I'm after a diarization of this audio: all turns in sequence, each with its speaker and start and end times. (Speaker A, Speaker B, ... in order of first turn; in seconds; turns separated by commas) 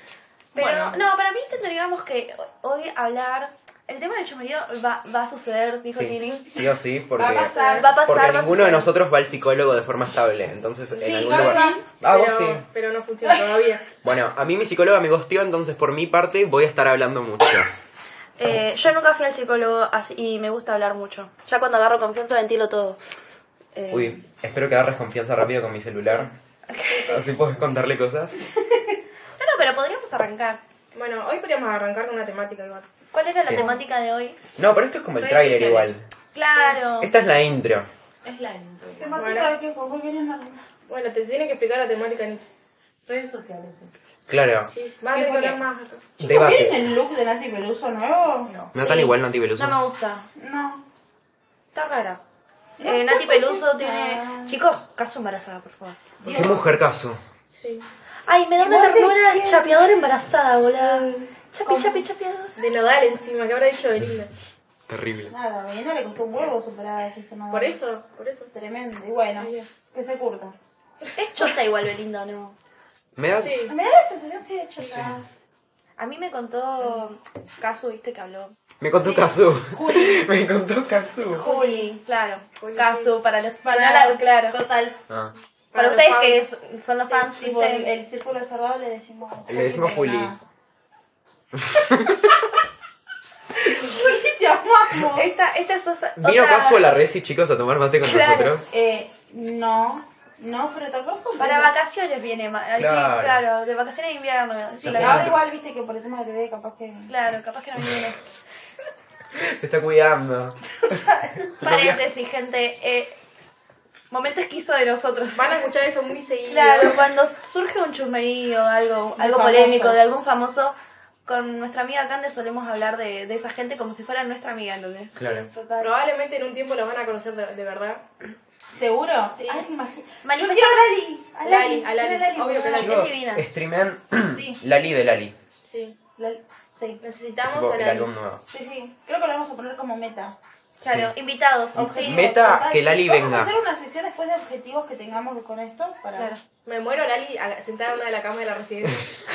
Speaker A: 0.5-6.7, Speaker B: 0.6-0.9, Speaker C: 5.9-12.7, Speaker D: 7.1-7.9, Speaker A: 7.3-8.9, Speaker B: 7.3-7.9, Speaker B: 10.9-13.8, Speaker D: 11.0-11.8, Speaker C: 14.0-17.7, Speaker A: 18.4-23.0, Speaker A: 23.7-24.2, Speaker C: 23.9-26.3, Speaker A: 26.7-27.2, Speaker B: 26.9-27.3, Speaker C: 27.1-28.4, Speaker D: 28.5-29.0, Speaker A: 29.4-30.6, Speaker B: 30.9-32.9, Speaker A: 33.1-34.4, Speaker C: 33.4-33.8, Speaker C: 34.6-36.0, Speaker E: 35.2-36.0, Speaker A: 36.3-37.1, Speaker C: 37.0-37.9, Speaker E: 38.2-39.2, Speaker D: 39.0-40.6, Speaker B: 39.1-39.5, Speaker B: 40.9-42.5, Speaker E: 43.0-43.9, Speaker C: 44.3-44.7, Speaker B: 44.7-46.1, Speaker E: 45.1-45.6, Speaker C: 46.2-46.9, Speaker D: 46.2-48.5, Speaker E: 48.4-48.7, Speaker C: 48.7-49.8, Speaker A: 48.7-50.3, Speaker D: 50.3-50.8, Speaker A: 51.7-52.2, Speaker D: 52.8-54.6, Speaker A: 52.8-56.0, Speaker D: 56.2-56.8, Speaker C: 56.2-57.2, Speaker B: 57.6-57.9, Speaker A: 58.2-62.5, Speaker D: 58.6-59.8, Speaker D: 60.8-61.1, Speaker D: 61.6-62.1, Speaker B: 62.5-64.3, Speaker C: 64.9-65.3, Speaker D: 65.3-67.8, Speaker B: 67.5-68.5, Speaker D: 68.5-70.6, Speaker B: 69.4-69.7, Speaker A: 71.2-72.6, Speaker C: 73.2-73.6, Speaker B: 73.3-73.8, Speaker D: 73.7-75.2, Speaker C: 74.8-75.2, Speaker A: 76.0-79.2, Speaker C: 78.8-81.4, Speaker D: 79.7-80.3, Speaker A: 81.4-84.6, Speaker D: 81.4-81.9, Speaker B: 82.6-83.2, Speaker D: 83.6-85.0, Speaker C: 85.1-85.3, Speaker B: 85.7-86.5, Speaker A: 85.7-87.9, Speaker D: 87.3-90.4, Speaker C: 89.5-90.3, Speaker C: 91.5-92.2, Speaker D: 93.5-95.3, Speaker A: 95.0-97.0, Speaker C: 96.2-98.7, Speaker A: 98.0-98.5, Speaker D: 98.6-101.7, Speaker A: 101.4-105.3, Speaker C: 102.7-103.4, Speaker C: 104.8-105.4, Speaker D: 104.9-107.1, Speaker A: 107.1-108.2, Speaker C: 109.3-111.0, Speaker D: 110.9-111.5, Speaker C: 111.6-112.0, Speaker A: 111.6-113.2, Speaker A: 114.1-115.6, Speaker B: 115.3-117.1, Speaker A: 116.5-125.1, Speaker D: 119.2-120.0, Speaker C: 125.2-125.5, Speaker D: 125.5-126.0, Speaker B: 125.8-128.0, Speaker D: 128.7-132.0, Speaker B: 129.3-129.6, Speaker A: 130.2-130.9, Speaker B: 131.4-133.1, Speaker A: 131.4-133.4, Speaker C: 132.8-135.3, Speaker D: 134.2-134.6, Speaker B: 135.6-136.0, Speaker D: 136.2-137.0, Speaker B: 137.0-138.1, Speaker C: 137.4-138.4, Speaker D: 138.5-140.3, Speaker A: 140.8-142.3, Speaker C: 140.8-141.1, Speaker D: 141.7-146.3, Speaker C: 141.8-143.5, Speaker A: 146.2-146.4, Speaker B: 146.6-149.2